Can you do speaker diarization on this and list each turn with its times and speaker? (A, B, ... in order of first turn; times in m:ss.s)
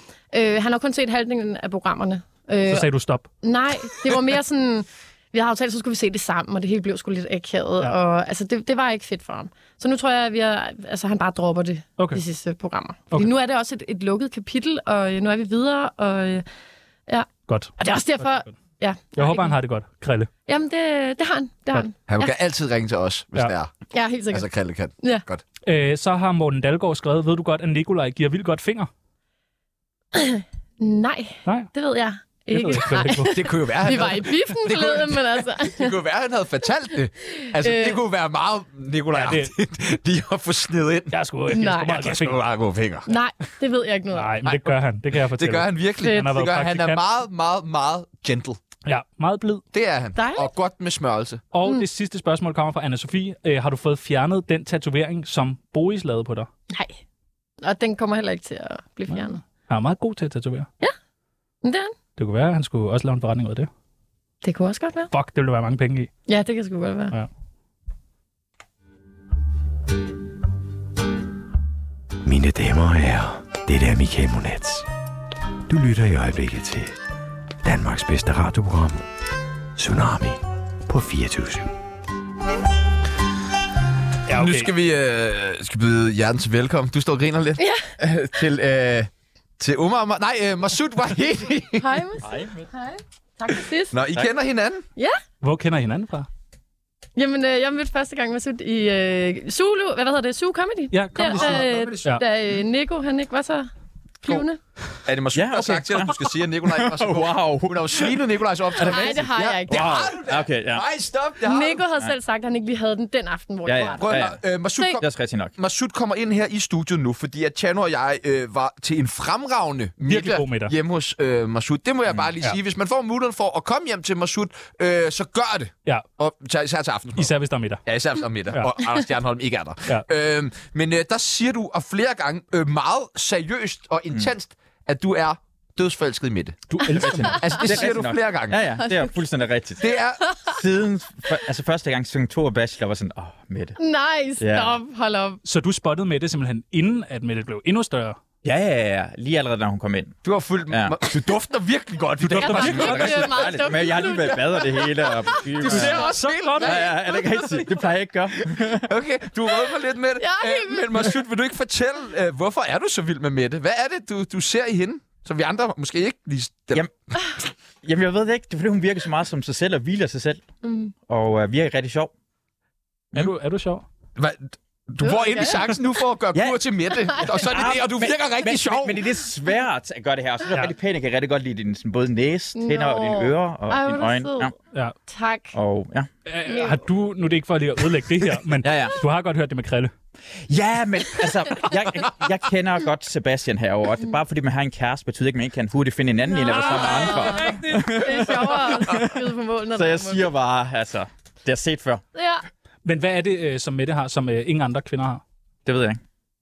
0:00.3-0:02.9 A
0:02.7-0:03.3 B
0:03.4-0:16.4 A
0:17.5-0:18.5 B
0:17.8-0:19.6 A
0:19.2-0:20.3 B
0:20.5-0:22.4 A
0:22.1-0:23.7 C
0:23.9-0:24.5 A
0:24.3-0:25.4 C
0:25.0-0:25.2 A
0:25.6-0:28.9 B
0:30.1-0:35.9 A
0:32.5-0:33.3 B
0:33.2-0:41.2 C
0:37.3-0:38.0 A
0:39.1-0:39.5 B
0:41.1-0:42.4 B
0:41.5-0:42.0 A
0:41.9-0:43.1 C
0:43.1-0:44.4 A
0:44.1-0:47.0 B
0:44.4-0:48.6 C
0:46.0-0:46.3 A
0:48.8-0:49.6 B
0:49.7-0:51.4 C
0:50.2-0:50.5 A
0:51.5-0:56.5 B
0:56.7-0:57.0 A
0:57.6-0:59.4 A
0:59.1-1:00.7 B
1:01.6-1:01.9 A
1:02.2-1:03.7 B
1:04.4-1:05.1 A
1:05.1-1:06.1 B
1:06.3-1:07.1 A
1:12.2-1:14.9 D
1:15.7-1:17.0 D
1:17.6-1:19.0 D
1:19.8-1:21.7 D
1:24.3-1:24.7 B
1:24.3-1:31.8 C
1:31.8-1:33.9 A
1:32.2-1:32.7 E
1:33.9-1:34.8 C
1:35.4-1:36.3 B
1:37.2-1:43.7 A
1:40.9-1:42.2 B
1:41.2-1:42.1 C
1:44.2-1:44.6 A
1:45.1-1:51.8 C
1:45.3-1:48.2 E
1:48.8-1:50.1 A
1:49.7-1:50.9 E
1:51.4-1:55.0 A
1:53.7-1:54.4 E
1:54.0-2:07.3 C
1:55.0-1:55.6 E
2:00.0-2:00.7 B
2:07.2-2:07.8 B
2:07.9-2:18.6 C
2:16.7-2:17.5 B
2:16.9-2:19.8 E
2:19.8-2:20.4 C
2:20.4-2:23.8 E
2:23.8-2:25.4 A
2:24.4-2:24.8 E
2:25.4-2:28.2 B
2:28.4-2:31.1 E
2:30.2-2:37.8 C
2:32.2-2:33.5 B
2:32.4-2:35.1 A
2:32.8-2:36.1 E
2:35.6-2:37.4 B
2:35.6-2:36.1 A
2:36.6-2:38.9 E
2:38.5-2:46.9 C
2:40.2-2:41.2 A
2:47.8-2:50.5 E
2:50.6-2:50.9 A
2:51.1-2:52.1 E
2:53.1-2:53.8 B
2:54.2-2:59.0 C
2:55.0-2:55.6 A
2:56.3-2:56.6 E
2:57.3-3:04.6 E
3:02.6-3:04.5 A
3:05.1-3:05.6 A
3:05.5-3:06.1 E
3:06.3-3:09.9 B
3:06.5-3:06.8 A
3:08.6-3:09.0 E
3:10.5-3:19.1 E
3:16.3-3:20.3 A
3:16.5-3:18.0 B
3:19.8-3:22.0 E
3:22.2-3:22.4 A
3:22.8-3:25.2 B
3:25.6-3:26.0 E